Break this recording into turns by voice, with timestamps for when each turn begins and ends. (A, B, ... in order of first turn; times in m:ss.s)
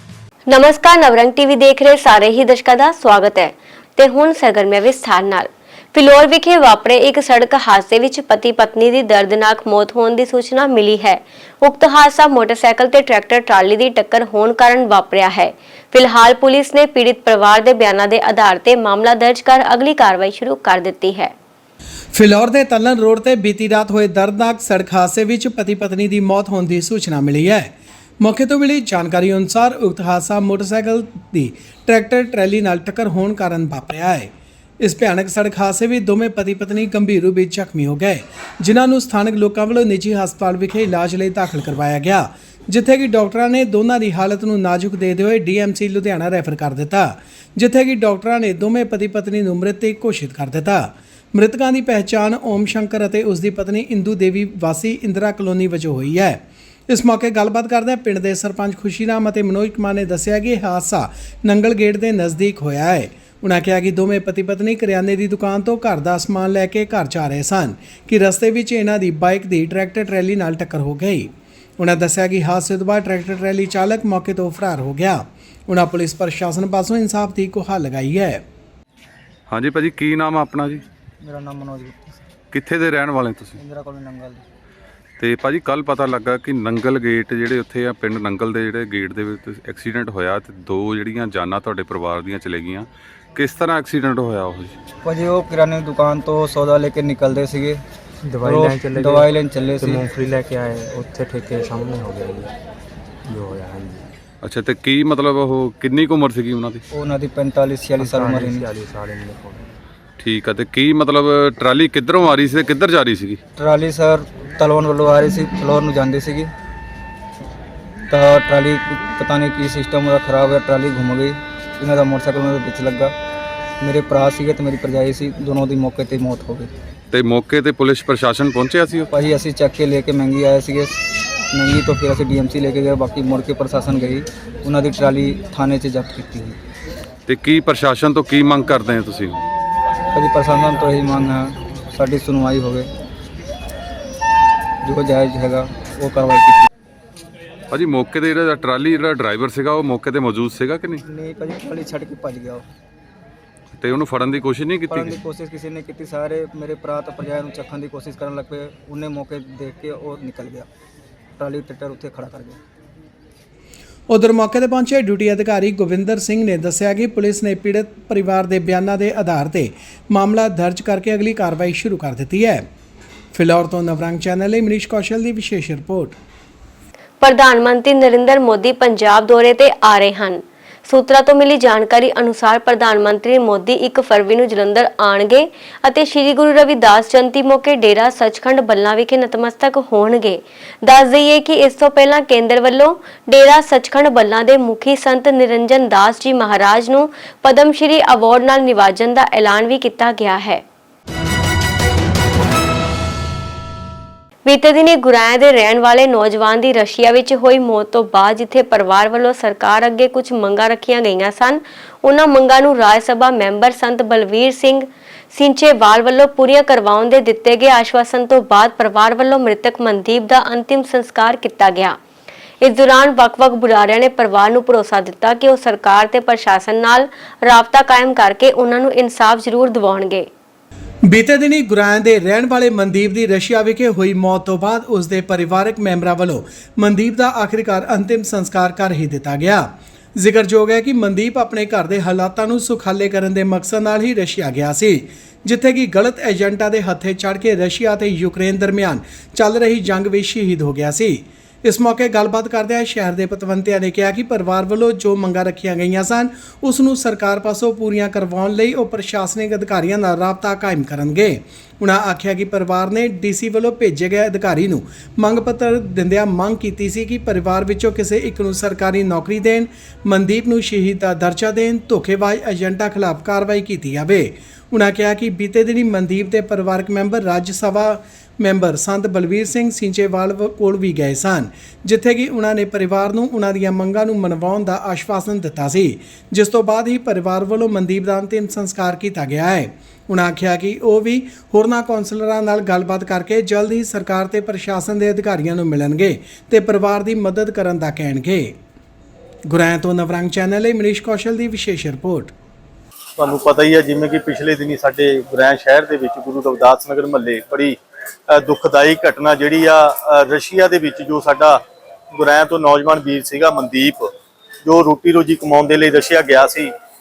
0:00.5-0:21.3 A
0:22.1-0:27.7 B
0:28.2-0:34.3 B
0:34.8-1:18.4 B
1:19.5-1:20.8 C
1:21.2-1:22.2 D
1:22.5-1:23.6 C
1:23.6-1:24.4 D
1:25.2-1:34.8 C
1:35.0-1:37.8 D
1:38.4-1:39.3 E
1:38.4-1:40.1 D
1:39.9-1:42.3 E
1:44.4-1:46.8 C
1:46.9-1:48.8 D
1:48.2-1:49.3 E
1:50.2-1:53.4 C
1:53.6-1:56.5 D
1:58.1-2:03.2 D
2:03.8-2:06.7 D
2:07.1-2:09.1 C
2:09.1-2:11.0 D
2:11.5-2:16.6 D
2:17.3-2:19.4 C
2:20.1-2:22.9 D
2:24.8-2:26.7 D
2:27.7-2:31.0 C
2:31.0-2:32.7 D
2:33.7-2:35.2 C
2:34.9-2:40.7 D
2:41.4-2:42.6 D
2:44.1-2:52.6 B
2:53.3-2:56.2 B
2:57.2-3:20.6 A
3:24.4-3:42.0 A
3:42.6-3:50.3 A
3:51.1-4:58.6 B
4:59.5-5:02.3 B
5:03.2-5:07.8 F
5:08.3-5:11.6 F
5:12.2-5:14.1 F
5:14.6-5:16.7 F